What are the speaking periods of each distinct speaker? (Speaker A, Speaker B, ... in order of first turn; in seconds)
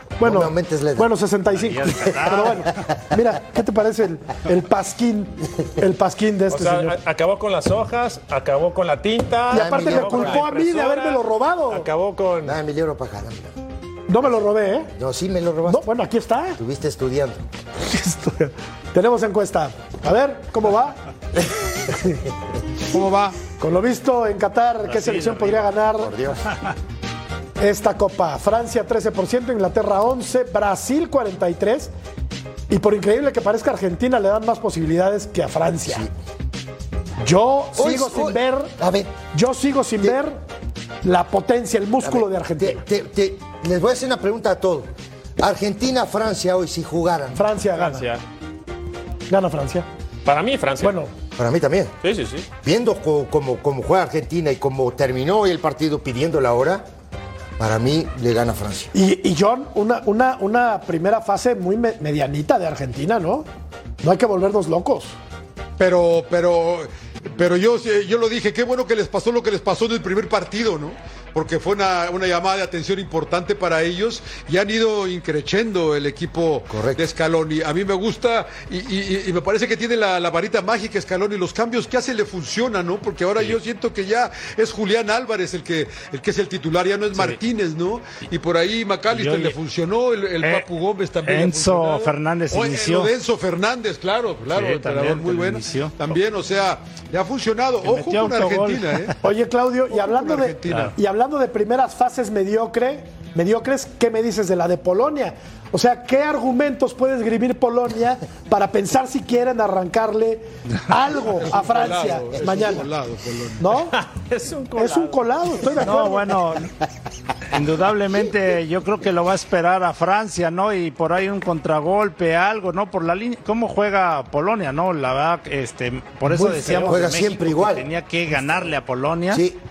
Speaker A: 0.2-1.1, 9.5-10.5, 12.4-13.5, 15.0-15.9, 16.6-17.4, 21.4-22.1, 26.0-26.5, 35.9-36.1, 37.8-39.2, 42.0-47.5, 51.4-51.9, 52.6-56.9, 57.6-58.9, 76.7-77.0, 126.9-127.9, 129.3-129.6
Speaker B: 0.2-7.0, 9.5-11.9, 14.1-14.9, 15.7-16.6, 17.8-21.0, 23.6-26.2, 27.6-31.9, 32.7-36.0, 37.2-38.7, 39.3-40.4, 41.0-42.8, 47.4-48.1, 49.3-49.9, 50.8-51.1, 58.9-63.5, 64.0-65.2, 99.2-112.9, 113.6-114.0, 114.8-116.4, 126.3-127.0
Speaker C: 1.5-2.7, 89.1-89.6, 91.2-93.1, 94.5-95.9, 97.8-99.1, 115.8-116.7, 117.5-129.4
Speaker D: 6.5-12.6, 24.9-25.7, 47.8-48.2, 50.3-51.0, 52.0-52.5, 113.8-115.8
Speaker E: 22.9-23.4, 65.8-99.1, 99.9-100.9, 111.3-113.7